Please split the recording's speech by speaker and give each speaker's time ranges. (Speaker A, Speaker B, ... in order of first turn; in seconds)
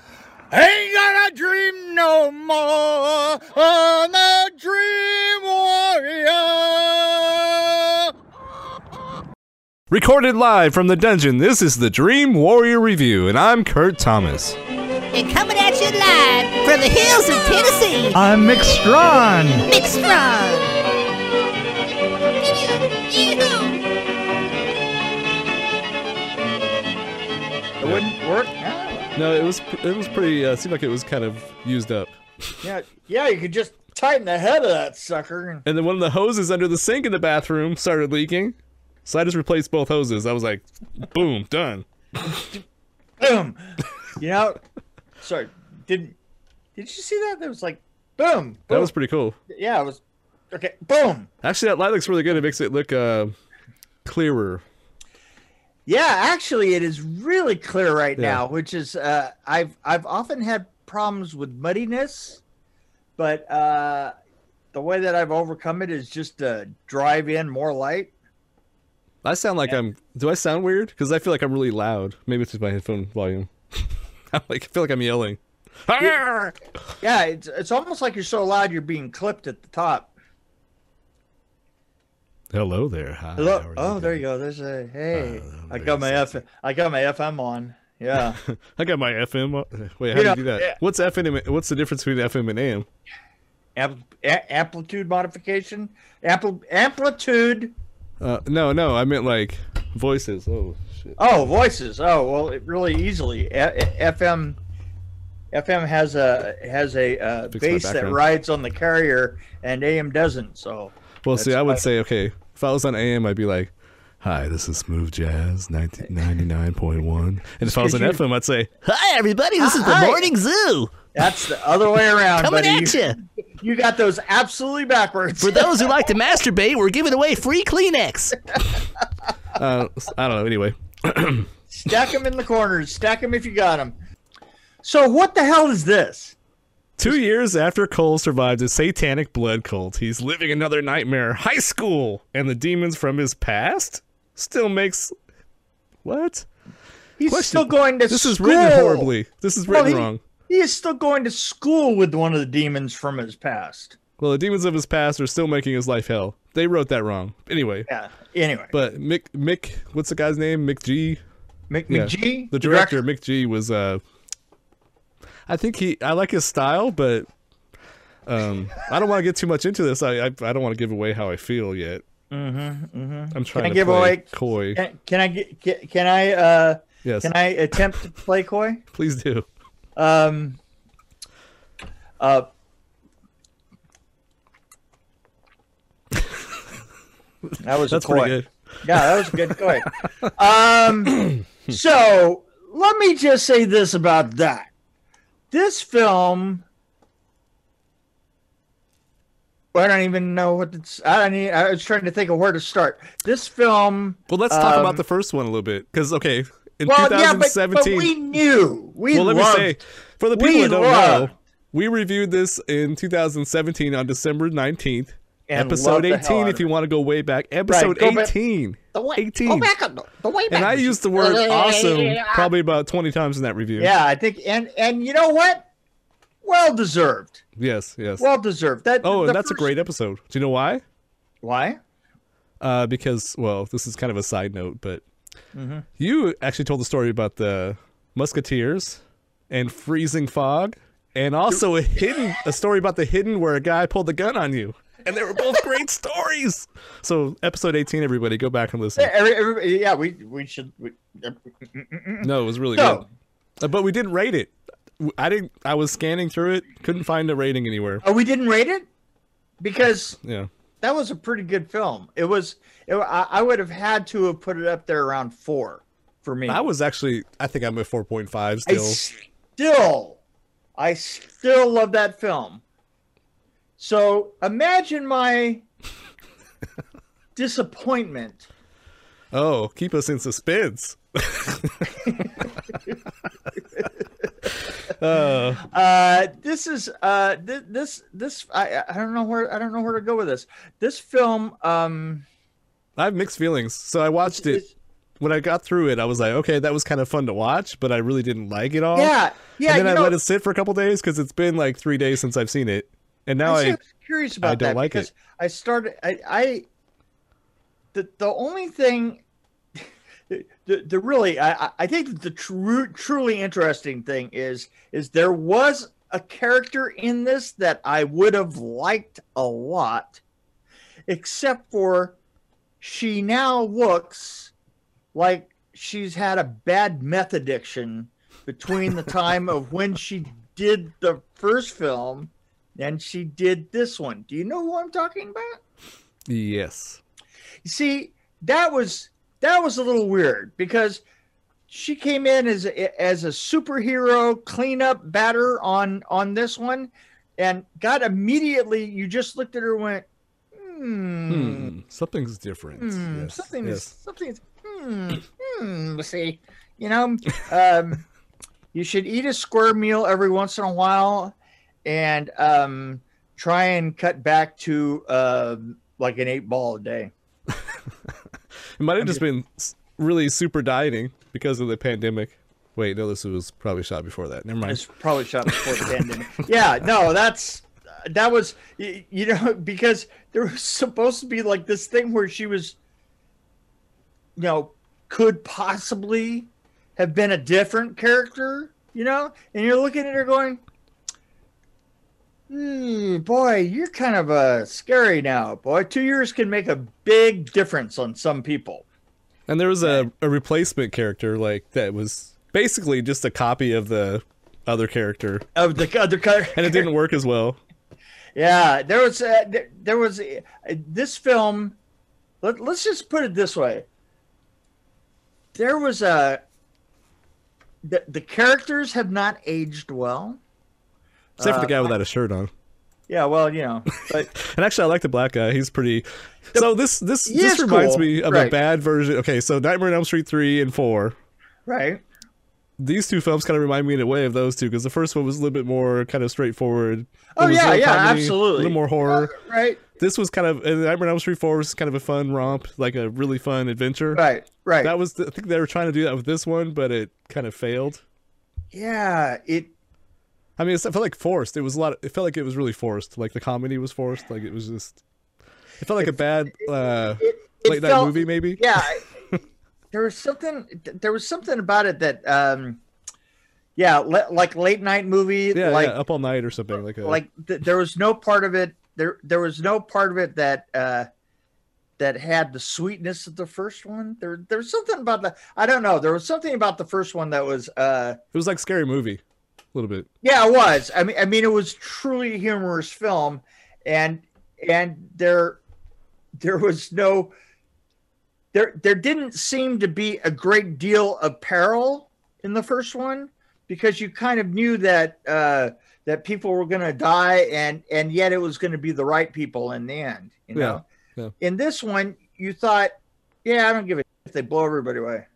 Speaker A: 0.5-8.1, 18.1-19.7, 27.8-29.1, 32.6-35.7, 43.2-44.6, 45.2-46.2, 46.7-48.9, 49.5-50.0, 50.5-51.3, 55.9-62.4, 63.2-64.1, 64.7-68.1, 77.0-80.1, 83.4-88.4, 90.1-90.8, 93.8-97.7, 101.2-104.6, 105.5-111.8, 117.6-118.2, 119.6-120.3, 121.1-126.0, 131.7-133.9, 134.8-136.3, 147.2-149.1, 149.7-154.0, 157.9-158.7, 161.7-163.0, 172.3-178.8, 179.9-180.6, 182.2-182.5, 187.6-194.7, 195.5-196.6, 199.7-205.0, 206.8-209.8, 210.3-211.3, 215.5-216.6, 217.7-218.3, 218.9-222.5, 223.8-225.7, 226.4-227.4, 228.2-229.8, 231.4-231.8, 235.5-235.8, 249.0-253.1, 258.0-258.9, 259.6-260.2, 260.8-266.6, 268.6-270.2, 270.8-272.6, 273.8-275.6, 277.4-278.5, 285.6-292.2, 294.3-294.7, 298.9-300.2, 303.4-306.6, 307.9-309.2, 309.8-320.2, 321.1-322.2, 322.8-324.5, 325.1-335.6, 337.6-341.0, 341.7-351.7, 352.8-358.1, 358.7-367.1, 374.6-382.8, 384.4-390.6, 392.5-398.9, 399.8-400.1, 405.6-406.9, 408.4-411.8, 412.4-413.9, 415.6-416.4, 417.8-420.4, 421.4-421.9, 423.1-424.3, 427.2-428.5, 431.7-432.0, 437.4-439.8, 444.1-444.9, 448.7-449.7, 456.0-459.1, 459.9-462.8, 463.8-465.9, 467.0-471.1, 472.0-478.2, 480.2-485.6, 486.4-487.3, 488.5-500.8, 501.4-502.9, 503.4-505.3
Speaker B: 9.9-14.6, 29.2-32.2, 35.7-42.5, 48.7-49.4, 51.4-53.3, 54.0-54.6, 69.2-76.6, 82.5-84.2, 85.1-86.4, 88.4-92.9, 98.2-101.2, 107.5-108.2, 111.2-118.7, 129.5-131.5, 137.0-145.1, 146.0-146.5, 147.3-150.2, 154.2-157.9, 158.7-161.2, 161.9-164.0, 165.5-167.3, 168.2-172.0, 173.3-174.8, 177.0-177.8, 178.9-179.4, 186.1-186.4, 187.5-190.1, 204.3-208.1, 209.1-219.7, 220.5-223.9, 227.6-228.2, 229.0-230.8, 232.6-235.0, 236.0-249.1, 252.2-253.0, 253.6-258.0, 260.2-260.5, 266.5-269.0, 279.3-282.1, 284.9-285.6, 293.0-294.6, 295.2-299.1, 299.6-303.8, 304.4-305.1, 336.3-337.0, 351.3-353.9, 368.8-374.8, 375.4-375.9, 399.5-405.4, 406.5-407.6, 421.4-422.5, 424.3-431.2, 432.8-439.3, 439.9-444.2, 444.8-448.0, 450.6-455.0, 455.8-458.7, 465.5-467.2, 478.3-479.2, 479.7-480.1, 500.6-501.3
Speaker C: 15.1-18.2, 19.7-20.8, 22.3-23.8, 118.8-120.9, 122.4-123.2, 125.4-128.5